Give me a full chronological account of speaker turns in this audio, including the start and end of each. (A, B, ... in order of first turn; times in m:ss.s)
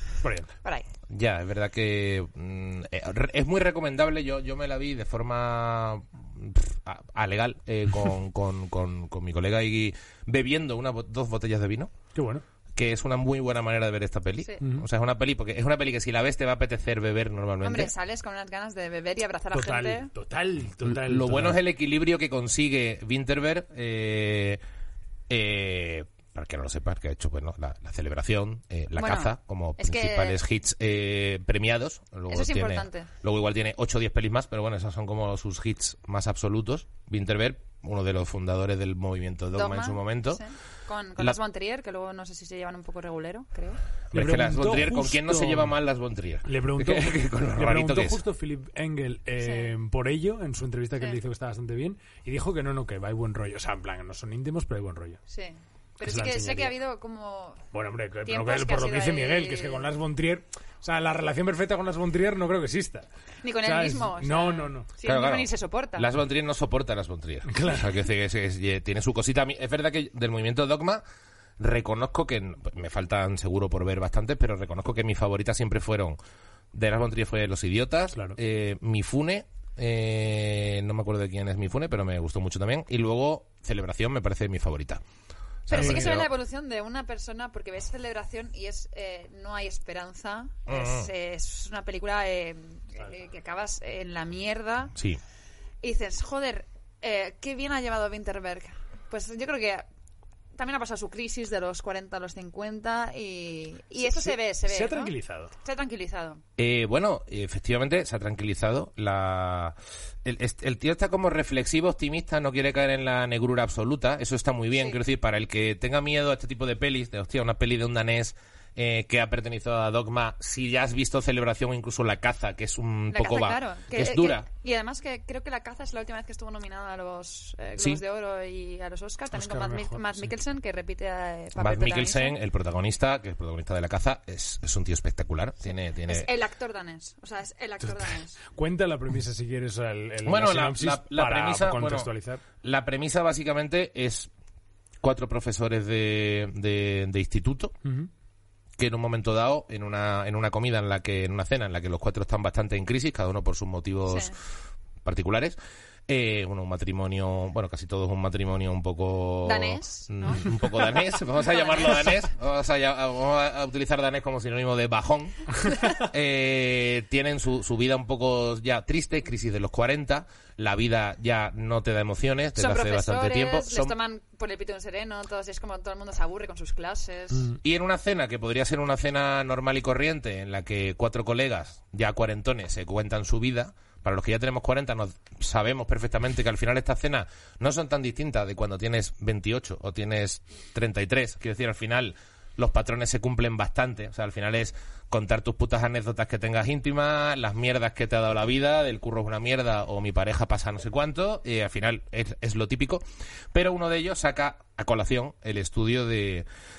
0:00.2-0:00.5 A
0:00.6-0:00.9 B
0:01.1-0:11.9 C
0:12.1-0:12.4 A
0:12.7-0:17.9 C
0:14.6-0:14.8 A
0:17.6-0:20.1 B
0:19.5-0:21.6 A
0:20.8-0:24.6 C
0:25.3-0:40.4 C
0:29.0-0:30.4 B
0:32.3-0:33.1 B
0:39.5-0:43.8 B
0:44.1-0:45.7 A
0:44.1-0:48.2 C
0:46.4-0:55.2 A
0:49.4-0:49.7 B
0:55.3-0:57.6 B
0:56.0-0:56.7 A
0:57.7-1:03.0 A
0:58.2-0:59.9 B
1:03.4-1:06.1 B
1:03.6-1:04.9 A
1:05.0-1:11.0 C
1:07.5-1:08.0 A
1:11.6-1:16.2 C
1:16.7-1:25.0 C
1:25.6-1:26.3 C
1:25.7-1:26.2 A
1:25.7-1:35.0 B
1:30.7-1:31.1 C
1:35.8-1:39.8 B
1:40.5-1:46.4 B
1:44.0-1:45.5 A
1:46.6-2:04.5 C
2:03.1-2:12.4 B
2:07.8-2:08.0 C
2:09.3-2:10.3 A
2:11.6-2:16.3 C
2:16.0-2:18.4 B
2:17.9-2:22.4 A
2:20.2-2:22.1 C
2:22.6-2:24.3 C
2:25.0-2:27.7 C
2:27.8-2:28.1 A
2:28.8-2:34.3 C
2:34.1-2:34.3 B
2:35.0-2:35.6 C
2:36.1-2:53.9 C
2:39.4-2:42.2 B
2:45.6-2:46.0 B
2:52.5-2:57.6 B
2:57.6-3:26.4 C